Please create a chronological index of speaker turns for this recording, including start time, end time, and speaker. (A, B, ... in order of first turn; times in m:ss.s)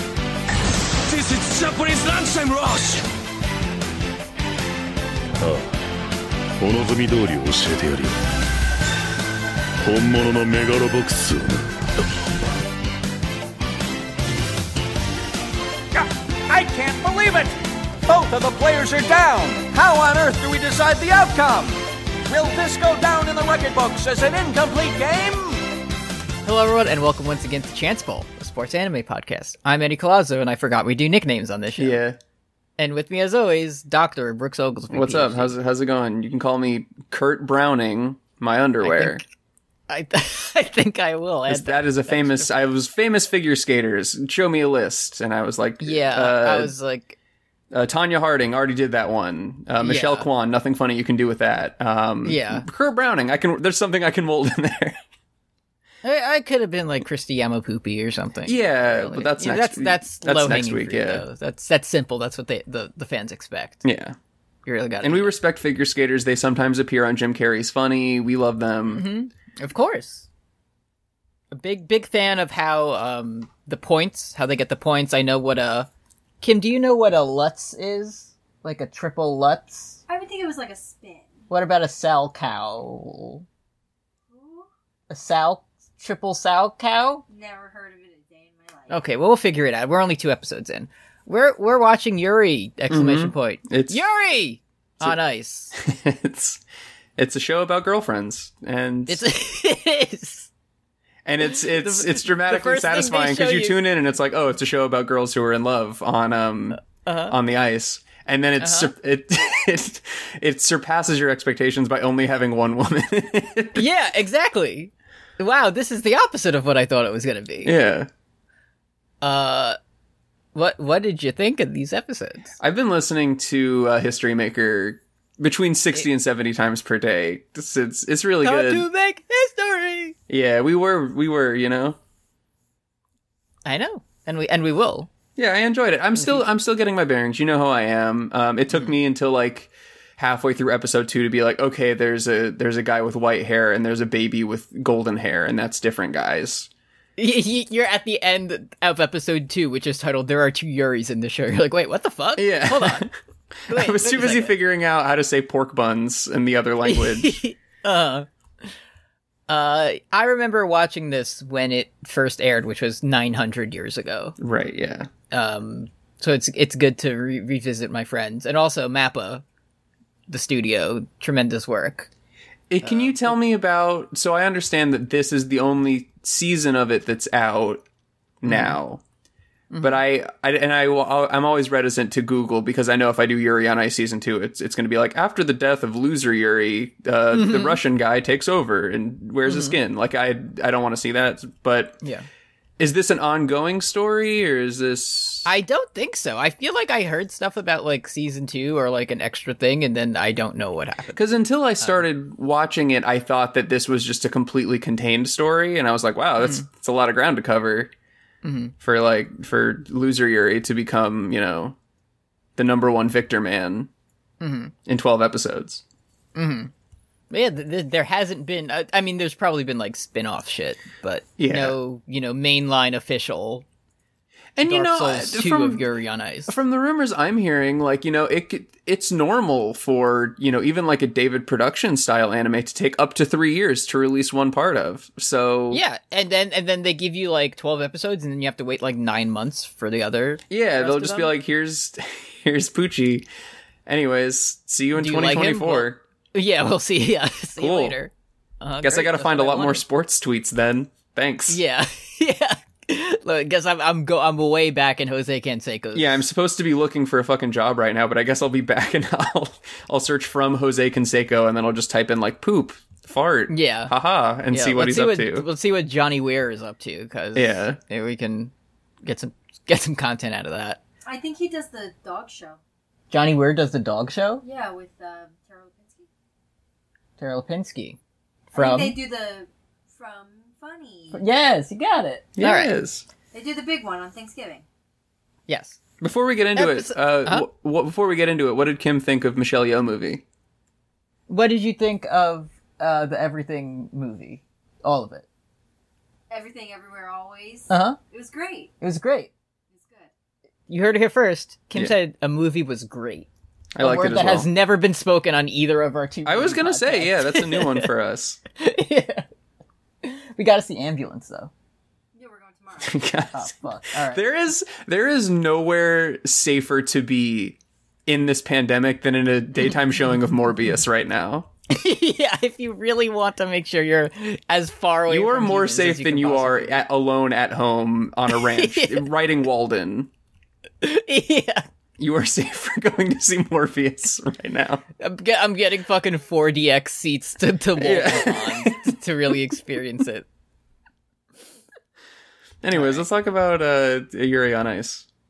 0:01.1-0:03.0 A
0:05.4-0:05.7 B
0:06.6-0:08.2 B
0:09.8-0:11.7 B
0:16.0-0:17.5 C
0:18.1-0:25.6 C
0:26.4-0:32.0 D
0:31.8-0:32.2 E
0:32.8-0:35.6 D
0:34.9-0:39.2 E
0:38.8-0:39.2 D
0:39.9-0:42.5 D
0:41.5-0:46.7 E
0:45.8-0:47.2 D
0:47.7-0:55.0 E
0:49.8-0:50.3 D
0:52.2-0:52.7 D
0:56.0-1:03.8 D
0:58.5-1:01.2 E
1:03.8-1:04.2 E
1:04.7-1:05.4 D
1:05.0-1:09.0 E
1:08.9-1:10.3 D
1:11.5-1:15.9 D
1:16.4-1:20.0 D
1:20.1-1:21.5 F
1:21.5-1:23.4 D
1:24.3-1:24.7 F
1:25.1-1:27.2 D
1:27.3-1:29.0 F
1:28.9-1:35.8 D
1:32.9-1:34.0 E
1:35.8-1:36.6 E
1:37.2-1:39.2 E
1:39.1-1:40.5 D
1:41.2-1:53.8 E
1:41.4-1:43.8 D
1:46.9-1:47.4 D
1:48.6-1:48.9 D
1:53.8-1:57.8 D
1:57.6-1:58.1 E
1:59.2-1:59.8 D
2:00.5-2:02.5 D
2:02.6-2:08.9 E
2:08.4-2:10.2 D
2:10.3-2:12.0 E
2:13.6-2:15.1 D
2:15.4-2:26.7 E
2:16.2-2:16.4 D
2:27.2-2:33.1 D
2:32.4-2:33.2 E
2:33.7-2:37.4 E
2:33.7-2:34.6 D
2:36.8-2:38.3 D
2:39.5-2:44.4 D
2:44.4-2:45.1 E
2:45.3-2:49.4 D
2:50.3-2:52.1 D
2:52.7-2:57.8 E
2:52.8-2:53.3 D
2:58.4-2:59.0 E
2:58.5-2:58.8 D
2:59.7-3:00.0 D
2:59.8-3:12.0 E
3:07.3-3:07.8 D
3:09.4-3:09.8 D
3:12.8-3:15.5 E
3:15.4-3:21.2 D
3:21.1-3:27.9 E
3:28.4-3:28.7 D
3:28.8-3:31.8 E
3:32.6-3:33.9 E
3:34.4-3:34.7 D
3:34.9-3:35.8 E
3:36.4-3:36.7 D
3:37.3-3:43.6 D
3:41.4-3:41.8 E
3:44.6-3:45.8 E
3:44.6-3:46.6 D
3:46.5-3:55.8 E
3:55.7-4:01.3 D
4:00.5-4:03.3 E
4:03.9-4:06.0 E
4:04.9-4:09.8 D
4:07.6-4:08.0 E
4:08.8-4:11.6 E
4:11.5-4:16.2 D
4:15.9-4:25.5 E
4:23.5-4:23.9 D
4:24.5-4:28.5 D
4:27.4-4:27.8 E
4:29.0-4:30.8 D
4:31.1-4:32.6 F
4:33.1-4:34.4 D
4:34.4-4:36.1 F
4:37.2-4:38.0 D
4:38.5-4:39.0 D
4:38.5-4:41.2 F
4:41.1-4:42.7 D
4:42.4-4:43.1 E
4:43.3-4:44.6 F
4:45.5-4:45.8 D
4:46.0-4:50.2 E
4:46.6-4:47.5 D
4:51.3-4:55.3 D
4:56.3-4:58.8 F
4:57.7-4:58.0 D
4:58.8-4:59.3 D
4:59.7-5:00.1 F
5:00.7-5:03.3 D
5:03.8-5:04.5 E
5:03.8-5:07.9 D
5:06.2-5:08.4 E
5:08.6-5:09.2 D
5:10.0-5:11.5 D
5:12.2-5:13.1 F
5:12.8-5:21.5 E
5:13.3-5:14.2 D
5:21.7-5:26.8 D
5:25.1-5:30.1 E
5:28.3-5:29.1 D
5:30.8-5:31.7 D
5:32.0-5:34.8 E
5:35.0-5:40.3 D
5:37.8-5:39.0 E
5:42.6-5:45.1 E
5:42.7-5:43.0 D